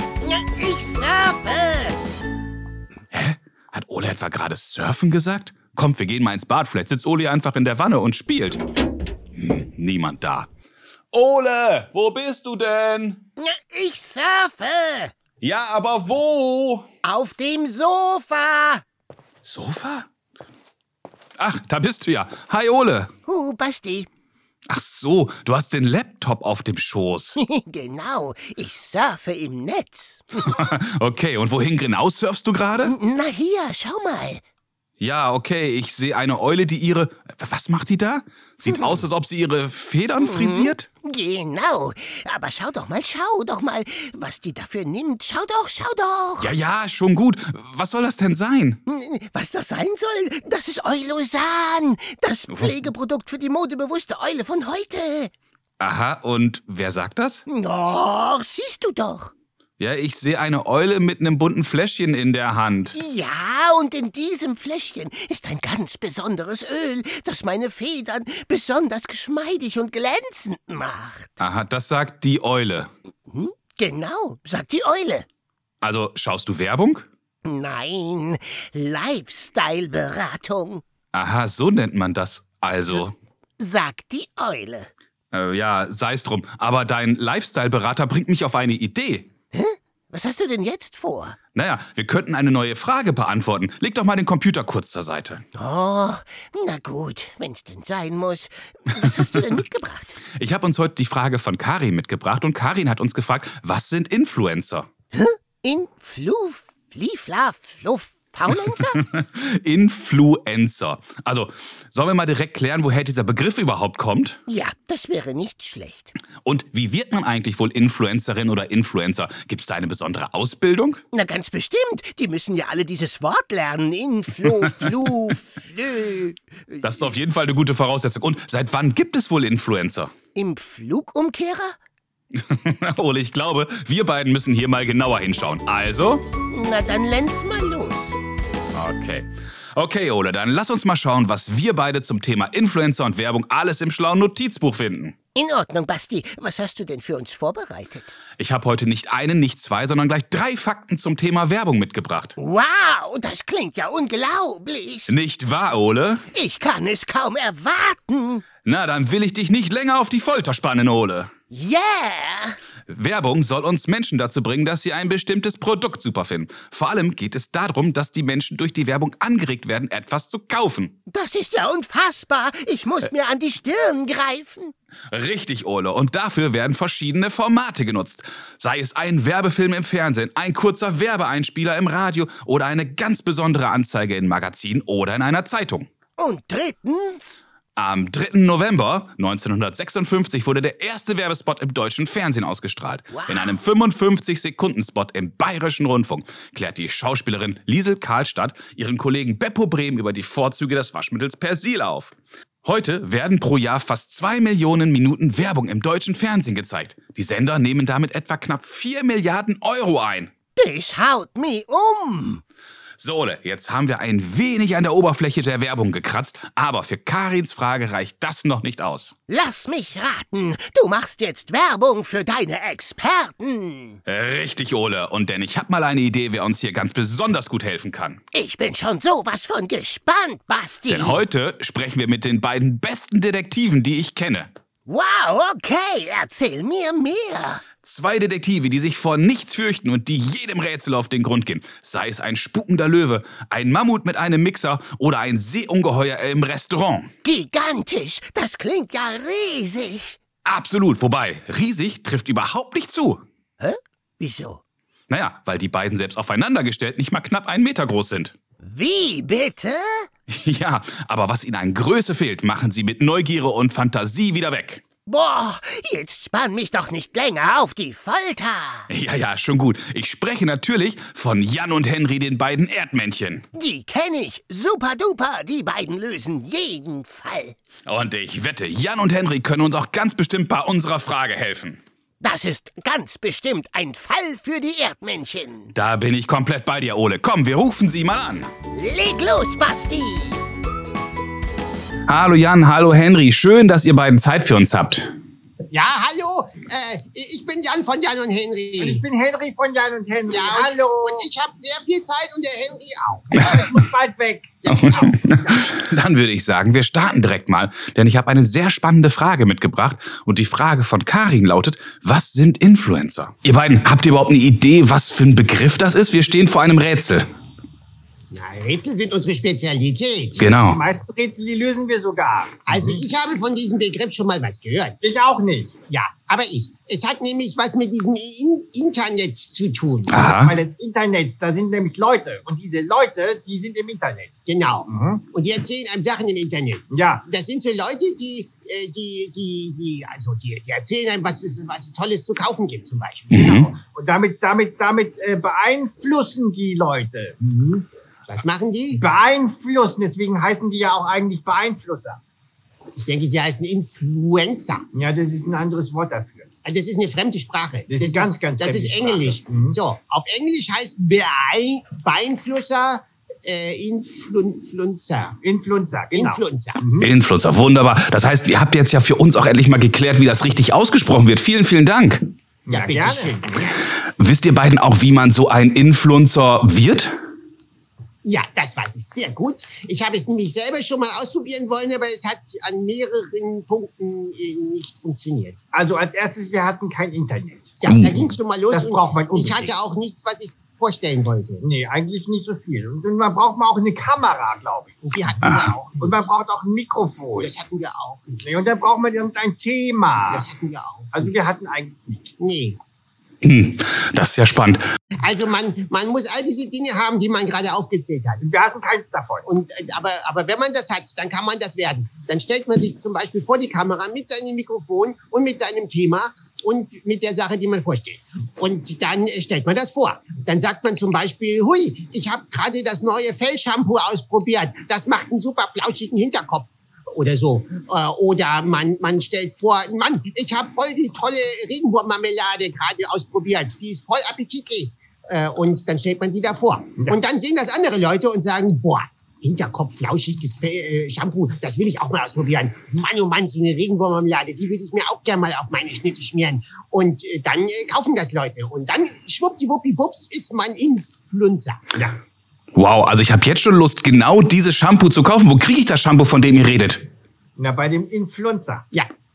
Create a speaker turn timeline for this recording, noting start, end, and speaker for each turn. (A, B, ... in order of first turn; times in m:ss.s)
0:00.2-0:02.0 A
0:03.1-0:08.6 B
0:09.4-0:10.5 B
0:11.1-0:13.2 B
0:13.4-0:15.1 A
0:15.4-0:16.9 B
0:17.0-0:18.8 A
0:19.4-0:20.1 B
0:21.4-0:23.1 B
0:23.2-0:24.1 A
0:24.7-0:27.4 B
0:27.4-0:30.6 A
0:30.4-0:32.9 B
0:32.8-0:34.4 A
0:35.0-0:40.9 B
0:40.2-0:46.5 A
0:46.4-0:48.8 B
0:48.9-0:55.3 A
0:52.5-0:52.9 B
0:55.8-0:57.4 B
0:57.5-0:59.3 A
0:59.8-1:03.0 B
1:02.9-1:11.4 A
1:11.4-1:12.9 B
1:13.3-1:15.2 A
1:15.8-1:17.1 B
1:17.4-1:20.8 A
1:21.1-1:23.1 B
1:23.6-1:24.9 A
1:25.3-1:29.3 B
1:29.5-1:31.4 A
1:31.5-1:35.4 B
1:35.5-1:40.2 A
1:40.4-1:44.9 B
1:45.1-1:49.0 A
1:48.9-1:54.4 B
1:54.5-1:56.1 A
1:56.4-2:01.0 B
2:01.1-2:07.1 A
2:04.4-2:05.3 B
2:06.8-2:10.1 B
2:10.3-2:11.7 A
2:12.3-2:16.2 B
2:16.5-2:18.2 A
2:18.7-2:25.2 B
2:25.3-2:28.1 A
2:28.4-2:32.4 B
2:32.4-2:35.1 A
2:35.1-2:36.2 B
2:36.3-2:38.5 A
2:38.6-2:41.3 B
2:41.5-2:42.6 A
2:42.9-2:51.0 B
2:51.1-2:54.7 A
2:55.1-3:05.9 B
3:06.2-3:07.4 A
3:07.8-3:30.3 B
3:13.1-3:13.6 A
3:30.6-3:32.4 A
3:33.0-3:39.1 B
3:39.3-3:44.0 A
3:44.0-3:48.2 B
3:48.3-3:51.2 A
3:50.8-3:54.5 B
3:54.9-3:57.7 A
3:57.8-4:07.1 B
4:07.2-4:10.2 A
4:10.4-4:13.2 B
4:13.6-4:14.6 A
4:15.1-4:18.3 B
4:18.6-4:20.1 A
4:20.3-4:24.8 B
4:25.1-4:28.9 A
4:28.9-4:33.5 B
4:33.5-4:37.6 A
4:37.8-4:41.8 B
4:42.2-4:45.7 A
4:45.7-4:48.5 B
4:48.7-4:50.4 A
4:52.1-4:55.1 B
4:55.7-4:59.0 C
4:58.8-5:01.3 D
5:00.3-5:03.6 C
5:03.3-5:05.7 D
5:04.7-5:17.3 B
5:18.3-5:20.4 C
5:20.4-5:20.8 B
5:20.4-5:23.0 D
5:22.7-5:25.0 C
5:25.0-5:25.8 D
5:25.9-5:30.2 C
5:30.0-5:34.3 D
5:30.1-5:30.5 B
5:34.4-5:43.6 C
5:34.9-5:35.2 D
5:36.9-5:37.2 D
5:43.3-5:43.7 B
5:43.3-5:47.8 D
5:48.3-5:49.0 C
5:48.9-5:52.2 D
5:53.0-5:54.8 C
5:54.9-5:56.5 D
5:56.6-6:05.4 C
5:57.9-5:59.8 D
6:05.4-6:07.1 D
6:06.1-6:06.8 C
6:07.0-6:12.3 B
6:12.6-6:13.8 D
6:12.7-6:13.8 C
6:14.0-6:17.2 B
6:18.2-6:25.6 C
6:25.7-6:28.2 D
6:27.8-6:31.6 C
6:28.7-6:29.8 D
6:31.6-6:37.5 D
6:35.0-6:36.2 C
6:37.4-6:38.5 C
6:38.4-6:40.5 D
6:40.3-6:41.1 C
6:41.1-6:42.4 D
6:42.4-6:42.8 C
6:43.4-6:44.8 B
6:45.2-6:48.5 C
6:48.4-6:49.5 D
6:49.4-7:31.8 C
7:32.7-7:37.0 B
7:37.6-7:38.8 D